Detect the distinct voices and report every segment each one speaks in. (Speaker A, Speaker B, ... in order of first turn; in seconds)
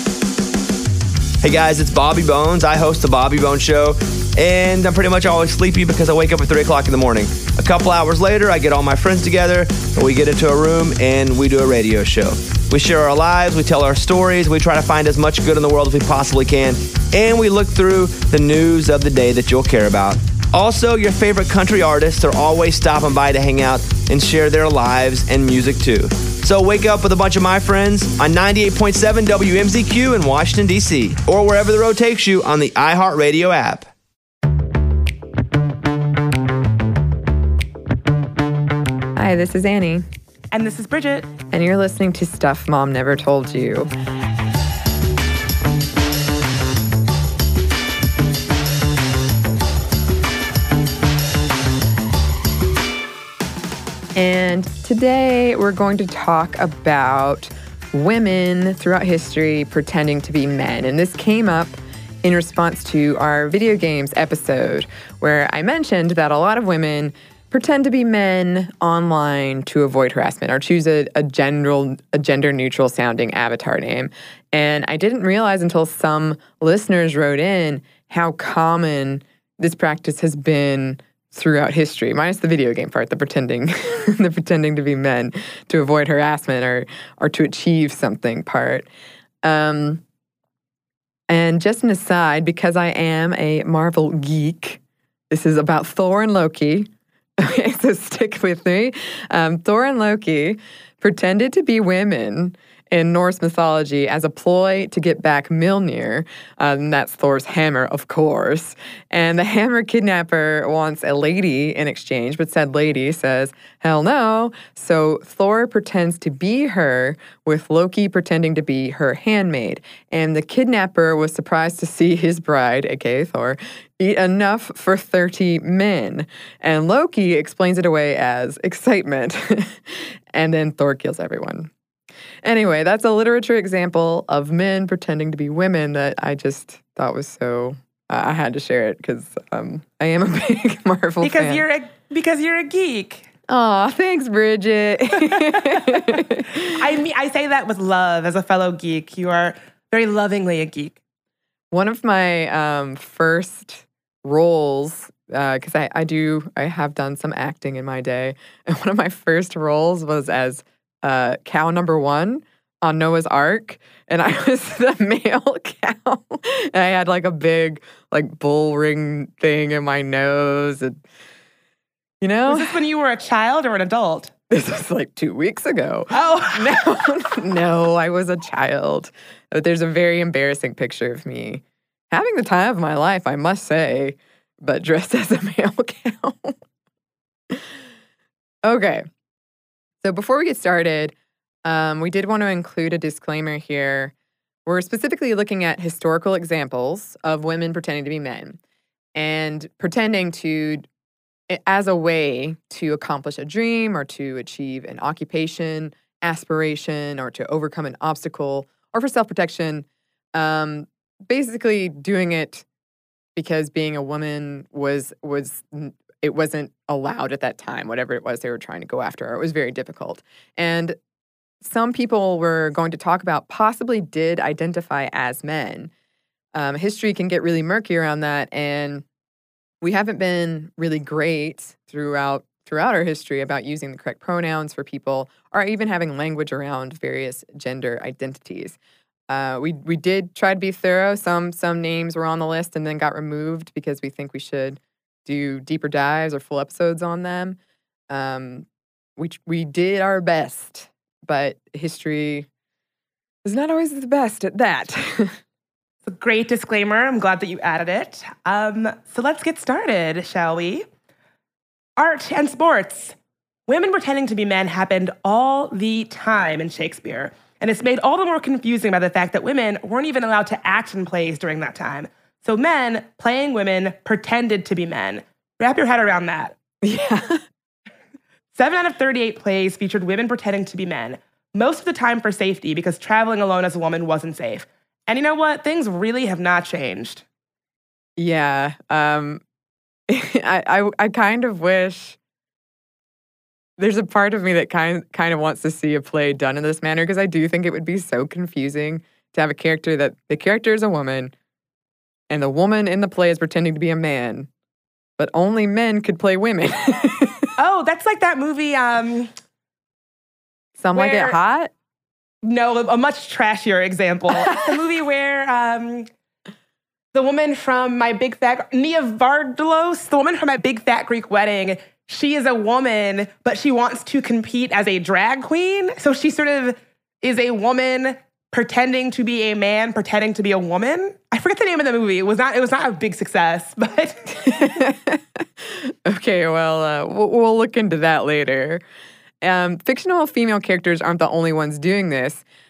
Speaker A: 1.4-33.9
Speaker B: 39.1-40.0, 41.5-43.9, 54.1-88.9, 89.4-90.0, 91.3-94.8, 95.3-131.7, 132.4-141.6, 143.5-146.8, 151.7-171.0, 172.2-172.8, 174.5-186.6, 188.6-189.0, 190.0-191.1, 191.6-194.1, 194.7-198.6, 199.2-200.9, 201.5-212.6, 213.3-220.9, 221.6-225.9, 226.5-229.0, 229.8-238.8, 239.3-247.6, 248.1-252.5, 253.4-255.4, 276.8-277.4, 288.2-289.4, 290.1-292.2, 293.8-301.3, 302.3-304.5, 305.2-307.5, 310.8-311.7, 334.3-338.8, 339.4-342.4
Speaker C: 40.5-41.3, 141.2-143.3, 145.3-151.0, 172.5-174.3, 176.1-177.1, 256.0-260.8, 262.0-263.1, 263.7-276.5, 278.5-287.2, 307.6-309.3, 310.9-311.4, 312.4-316.1, 317.1-334.2